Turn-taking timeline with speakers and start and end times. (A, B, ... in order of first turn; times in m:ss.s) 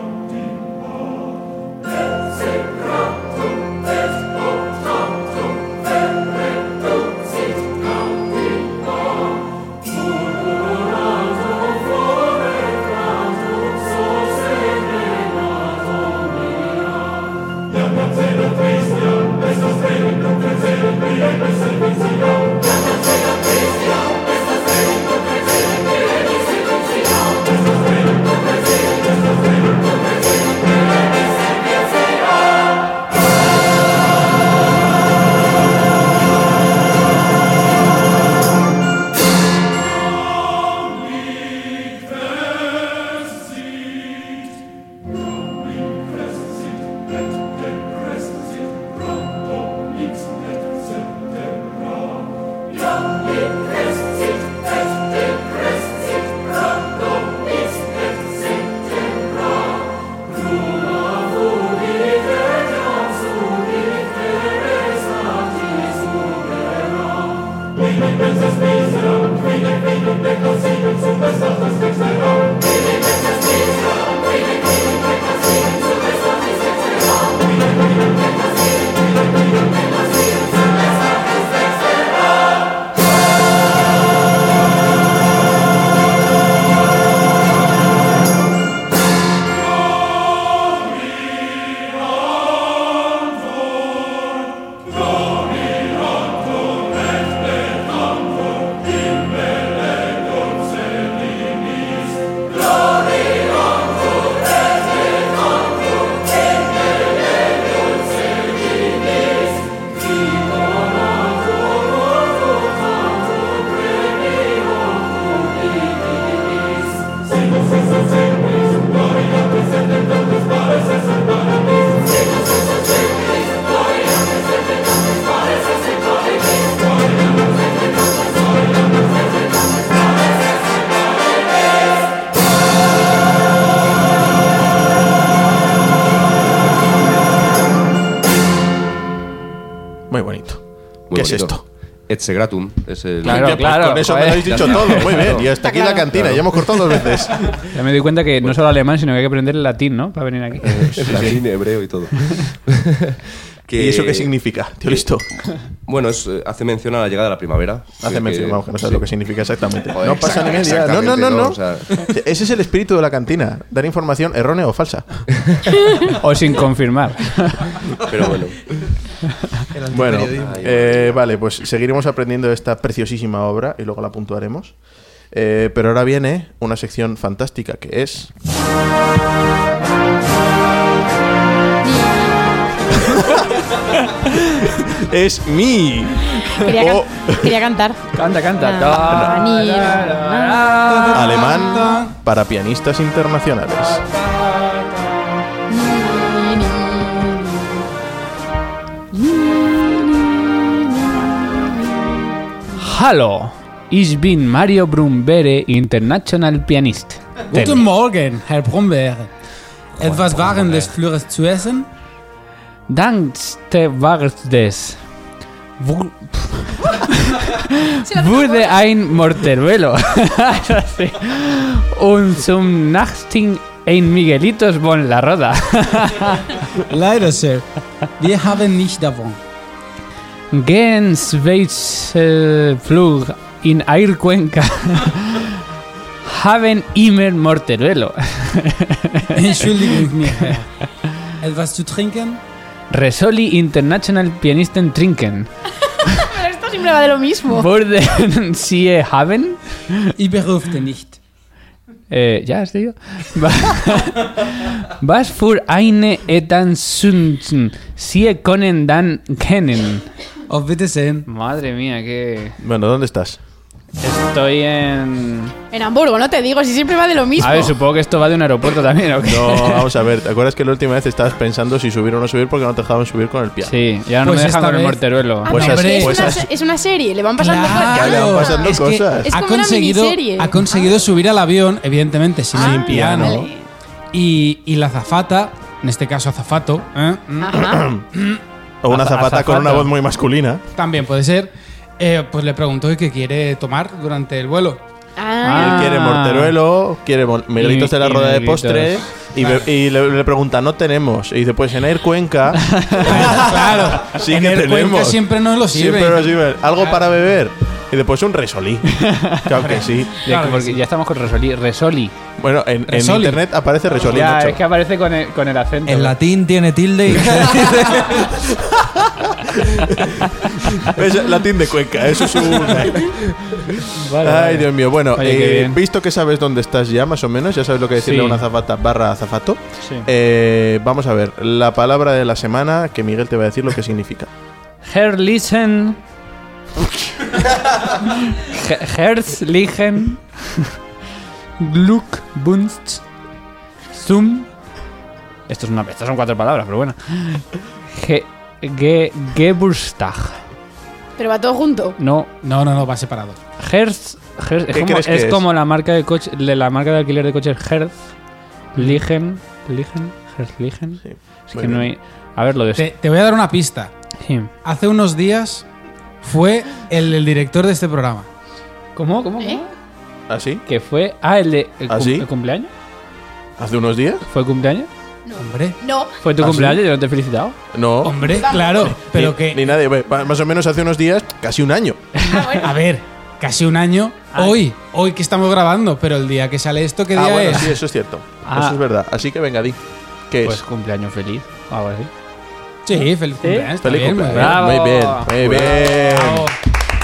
2:20.1-2:21.6 A
2:21.1-2:25.5 B
2:23.2-2:25.2 C
2:23.2-2:27.6 A
2:25.6-2:26.1 D
2:26.1-2:26.5 B
2:27.7-2:31.0 C
2:30.6-2:31.4 A
2:30.9-2:42.1 B
2:33.7-2:35.4 A
2:38.0-2:45.3 A
2:46.2-2:47.7 C
2:48.0-2:48.9 B
2:49.7-2:50.7 E
2:49.9-2:54.8 A
2:50.3-2:51.2 B
2:55.3-2:58.3 A
3:01.8-3:03.3 D
3:04.6-3:07.6 A
3:06.4-3:08.0 D
3:08.1-3:11.6 C
3:08.6-3:10.8 D
3:09.0-3:09.5 A
3:10.9-3:12.1 F
3:11.1-3:14.0 A
3:11.4-3:11.8 D
3:13.8-3:14.9 C
3:15.7-3:17.9 D
3:19.1-3:22.3 D
3:22.8-3:27.8 C
3:27.5-3:29.3 F
3:30.0-3:31.9 F
3:30.0-3:30.8 C
3:32.9-3:35.0 C
3:35.8-3:46.6 C
3:38.1-3:38.8 D
3:46.8-3:49.4 F
3:50.5-3:55.6 C
3:56.2-4:00.6 C
3:59.3-4:00.8 F
4:01.4-4:02.4 F
4:02.9-4:05.5 C
4:06.0-4:07.7 D
4:07.5-4:10.1 C
4:10.2-4:11.2 F
4:12.1-4:20.1 C
4:20.5-4:21.2 F
4:21.3-4:22.6 C
4:22.6-4:23.4 A
4:24.0-4:25.5 C
4:25.7-4:27.8 D
4:27.4-4:29.9 C
4:29.2-4:33.8 A
4:33.6-4:35.6 C
4:34.2-4:36.4 F
4:35.4-4:40.9 D
4:35.5-4:36.5 A
4:37.4-4:43.5 F
4:37.7-4:39.3 A
4:42.5-4:43.5 A
4:42.5-4:43.7 D
4:44.1-4:47.6 F
4:47.4-4:47.8 D
4:47.5-4:48.1 A
4:48.8-4:50.6 A
4:48.9-4:49.8 C
4:50.8-4:54.8 F
4:55.2-4:55.9 D
4:55.4-4:56.5 C
4:55.5-5:10.1 A
4:57.6-4:59.0 C
5:02.7-5:03.2 C
5:03.0-5:07.0 F
5:09.0-5:09.4 C
5:09.6-5:10.8 F
5:10.2-5:12.1 C
5:12.4-5:14.6 A
5:12.9-5:13.4 F
5:14.0-5:16.2 C
5:15.8-5:17.6 E
5:17.5-5:34.3 A
5:20.5-5:20.9 C
5:23.8-5:25.8 C
5:28.0-5:28.4 C
5:29.8-5:30.1 C
5:34.8-5:36.0 C
5:37.9-5:40.7 C
5:41.6-5:43.0 C
5:43.9-5:44.5 C
5:45.5-5:50.4 C
5:51.2-5:52.0 D
5:52.0-5:52.3 C
5:52.4-5:53.4 F
5:53.6-5:57.9 C
5:54.7-5:55.5 A
5:58.7-6:02.9 C
6:01.0-6:01.9 A
6:02.7-6:03.9 F
6:04.2-6:04.5 C
6:04.6-6:05.6 F
6:06.2-6:08.3 F
6:08.9-6:09.7 C
6:10.3-6:10.6 A
6:10.7-6:12.7 C
6:11.9-6:12.3 A
6:13.6-6:14.2 A
6:14.3-6:14.9 C
6:15.2-6:16.1 D
6:15.4-6:15.8 F
6:16.2-6:17.6 C
6:16.4-6:16.8 A
6:17.7-6:22.1 A
6:18.0-6:19.7 F
6:18.3-6:18.9 D
6:22.2-6:22.8 D
6:22.6-6:27.7 F
6:24.3-6:24.6 C
6:27.1-6:30.6 A
6:28.4-6:28.8 C
6:30.4-6:32.1 C
6:32.8-6:34.6 F
6:33.4-6:33.7 C
6:33.8-6:36.5 A
6:34.3-6:36.0 C
6:35.6-6:36.5 F